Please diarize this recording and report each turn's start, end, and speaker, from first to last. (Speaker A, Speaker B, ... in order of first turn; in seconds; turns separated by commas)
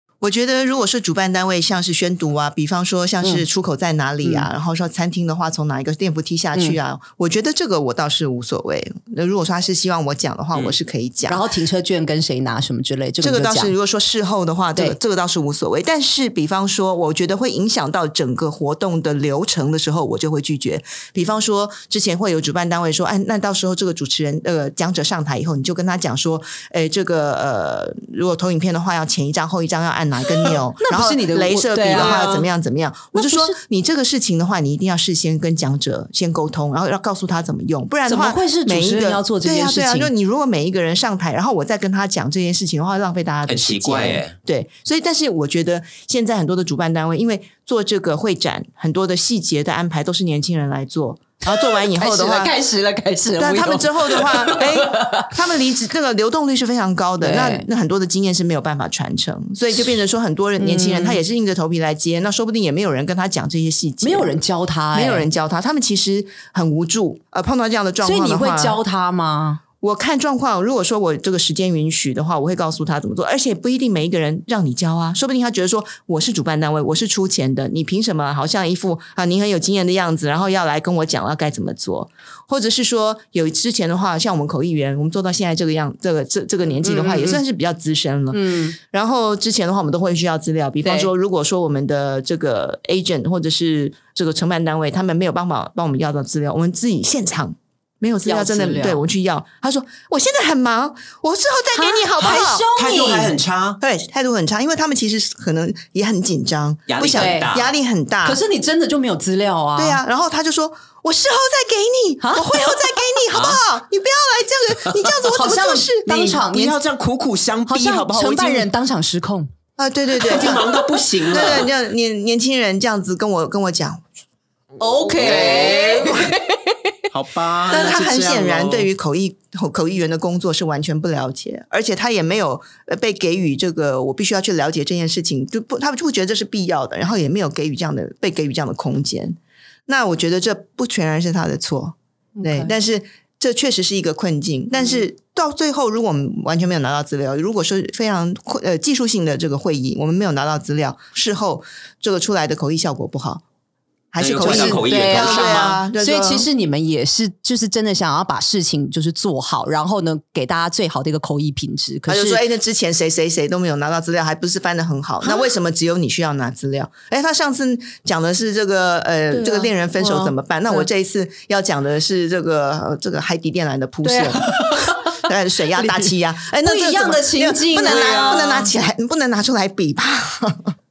Speaker A: 0.2-11.4, Speaker B: 11.3-13.7, Speaker A: 13.2-52.5, Speaker B: 30.4-32.5, Speaker B: 33.1-33.6, Speaker B: 38.1-40.1, Speaker C: 43.5-44.4, Speaker B: 51.5-55.3, Speaker A: 53.4-64.3, Speaker B: 57.2-57.7, Speaker B: 60.6-61.2, Speaker B: 64.0-65.3, Speaker A: 64.9-68.8, Speaker B: 68.0-69.6, Speaker A: 69.8-102.7, Speaker B: 86.8-87.4, Speaker B: 88.3-88.8, Speaker B: 90.8-91.1, Speaker B: 98.2-99.0, Speaker B: 101.7-103.4, Speaker C: 102.2-103.8, Speaker A: 103.8-108.4, Speaker C: 106.9-107.7, Speaker B: 107.1-107.6, Speaker B: 108.2-110.0, Speaker A: 109.8-116.5, Speaker B: 112.2-113.2, Speaker C: 113.3-113.6, Speaker B: 115.3-116.8, Speaker C: 116.2-118.7, Speaker B: 117.7-119.5, Speaker A: 119.8-120.7, Speaker B: 120.2-121.7, Speaker C: 120.2-121.7, Speaker A: 121.3-124.0, Speaker B: 124.8-126.9, Speaker A: 125.2-126.1, Speaker C: 125.2-126.3, Speaker C: 127.1-128.9, Speaker A: 127.7-153.4, Speaker B: 142.4-142.7, Speaker A: 154.1-156.5, Speaker C: 154.2-155.8, Speaker B: 154.4-162.4, Speaker A: 162.1-180.7, Speaker B: 165.2-165.5, Speaker B: 169.3-170.9, Speaker B: 174.0-175.2, Speaker B: 175.8-178.7, Speaker C: 178.1-178.4